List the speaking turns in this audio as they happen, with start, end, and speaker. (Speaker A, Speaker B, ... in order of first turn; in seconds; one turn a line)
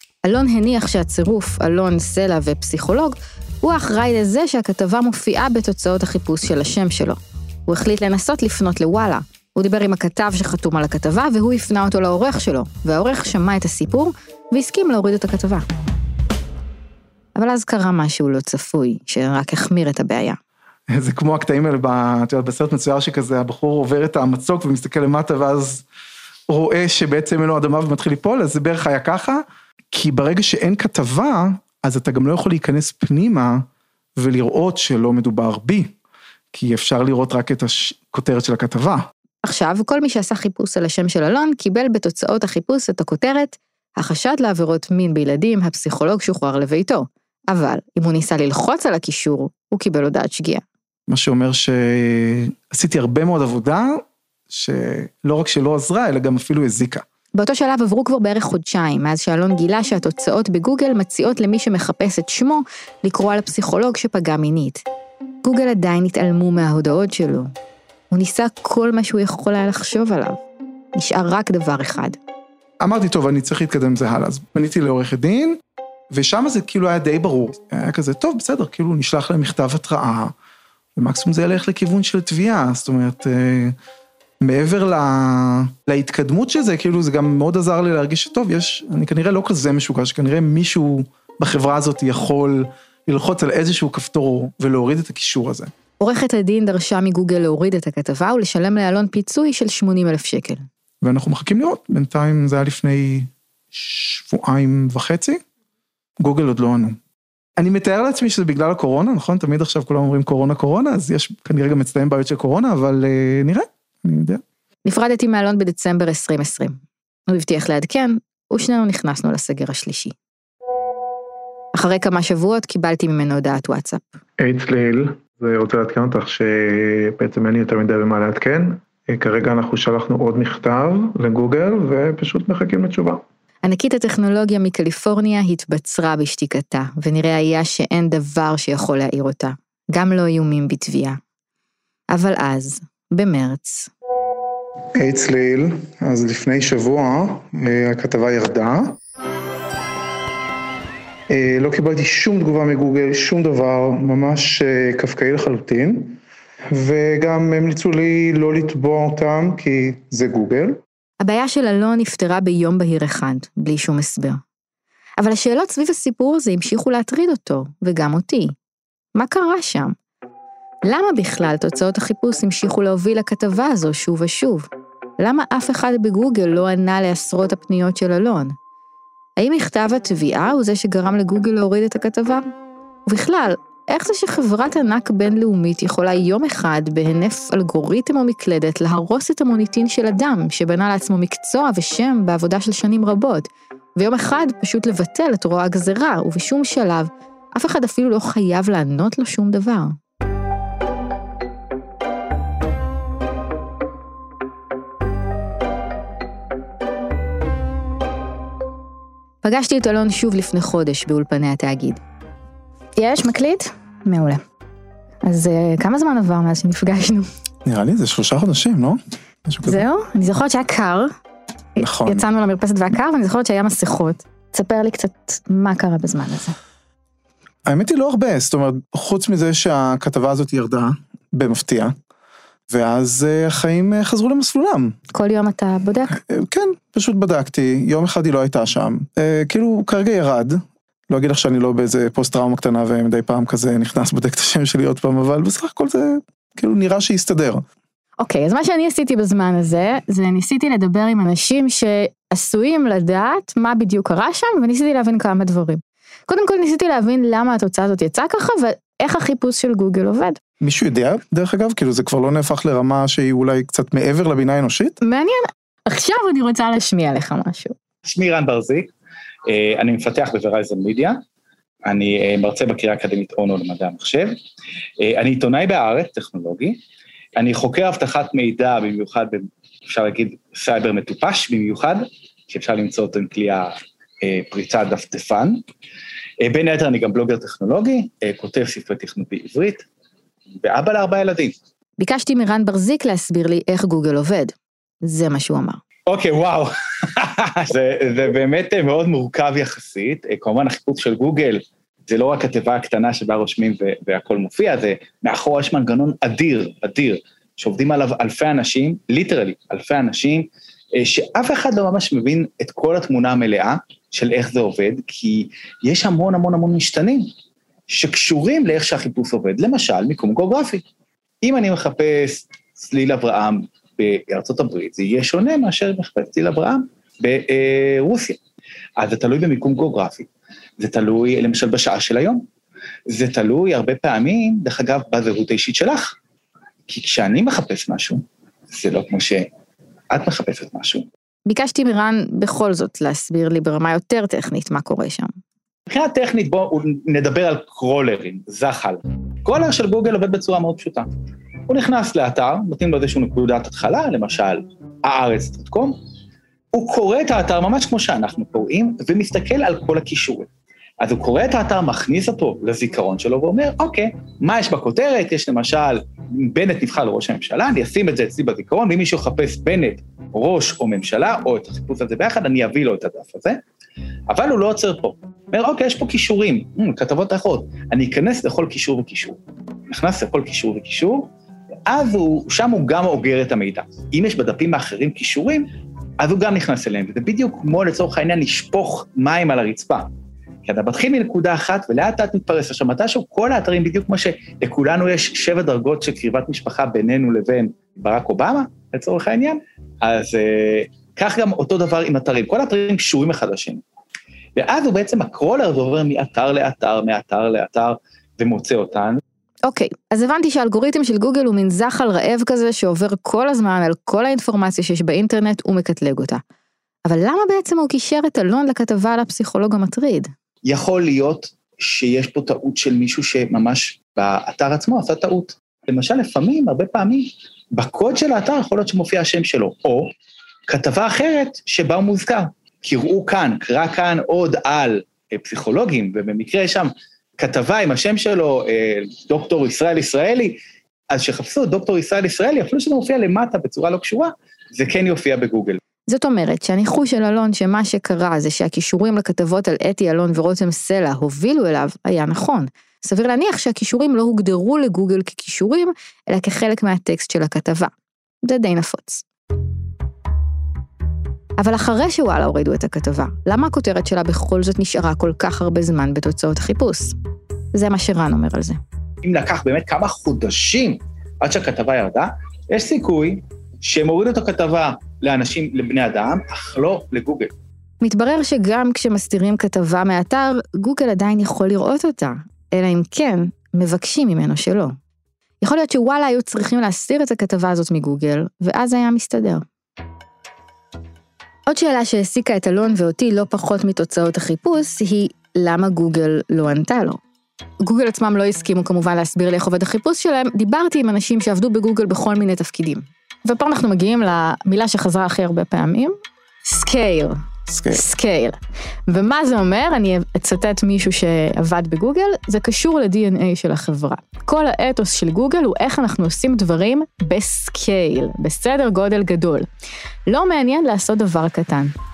Speaker A: 0.2-15.7
Speaker A: 17.4-20.4
Speaker B: 20.9-25.8
Speaker B: 26.5-35.9
Speaker B: 36.5-39.1
Speaker A: 39.4-50.6
Speaker B: 51.1-57.0
Speaker A: 57.3-64.8
Speaker A: 65.4-67.5
Speaker A: 68.1-70.4
Speaker A: 70.9-72.2
Speaker B: 72.8-75.6
Speaker B: 76.1-80.3
Speaker B: 81.0-83.8
Speaker B: 84.4-95.7
Speaker A: 96.0-100.7
Speaker B: 101.0-105.4
Speaker B: 106.2-107.0
Speaker B: 107.6-114.4
Speaker A: 114.8-120.1
Speaker A: 121.7-124.2
Speaker B: 124.4-133.2
Speaker A: 133.6-141.2
Speaker A: 142.1-143.9
Speaker B: 144.9-149.0
Speaker B: 151.3-160.8
Speaker A: 161.2-164.4
Speaker A: 165.2-168.6
Speaker A: 169.1-170.0
Speaker A: 170.8-174.7
Speaker A: 175.2-178.6
Speaker A: 179.4-182.4
Speaker A: 183.1-200.0
Speaker A: 209.4-212.0
Speaker A: 213.0-214.4
Speaker A: 215.2-217.3
Speaker B: 217.7-219.8
Speaker A: 219.6-221.1
Speaker A: 221.8-226.6
Speaker B: 221.8-222.2
Speaker B: 227.7-231.9
Speaker B: 232.7-235.0
Speaker A: 235.1-236.1
Speaker B: 236.1-247.6
Speaker A: 248.2-260.4
Speaker B: 260.6-264.9
Speaker A: 265.0-267.8
Speaker C: 268.0-268.9
Speaker C: 269.5-271.2
Speaker C: 271.8-274.4
Speaker C: 275.0-276.8
Speaker C: 277.4-285.6
Speaker C: 286.4-289.8
Speaker C: 290.6-291.5
Speaker A: 292.0-295.8
Speaker C: 296.1-317.3
Speaker C: 317.9-320.8
Speaker C: 321.4-328.4
Speaker C: 329.0-330.3
Speaker C: 330.8-332.4
Speaker C: 333.1-336.1
Speaker C: 336.9-339.5
Speaker C: 340.1-341.1
Speaker A: 341.5-345.3
Speaker C: 345.9-351.1
Speaker C: 351.7-356.0
Speaker C: 356.7-360.5
Speaker C: 361.0-373.6
Speaker C: 374.3-381.3
Speaker C: 381.9-385.7
Speaker C: 386.2-390.1
Speaker C: 390.6-403.8
Speaker C: 404.6-409.2
Speaker A: 409.7-416.4
Speaker A: 417.1-420.3
Speaker C: 420.6-430.1
Speaker C: 430.7-440.6
Speaker C: 441.1-445.8
Speaker A: 446.1-457.9
Speaker A: 458.4-459.2
Speaker A: 461.6-467.1
Speaker A: 467.7-468.8
Speaker C: 469.2-477.5
Speaker A: 478.0-484.9
Speaker A: 485.6-489.6
Speaker A: 491.7-497.2
Speaker A: 497.8-506.1
Speaker A: 506.7-519.7
Speaker B: 507.7-508.0
Speaker A: 520.3-521.9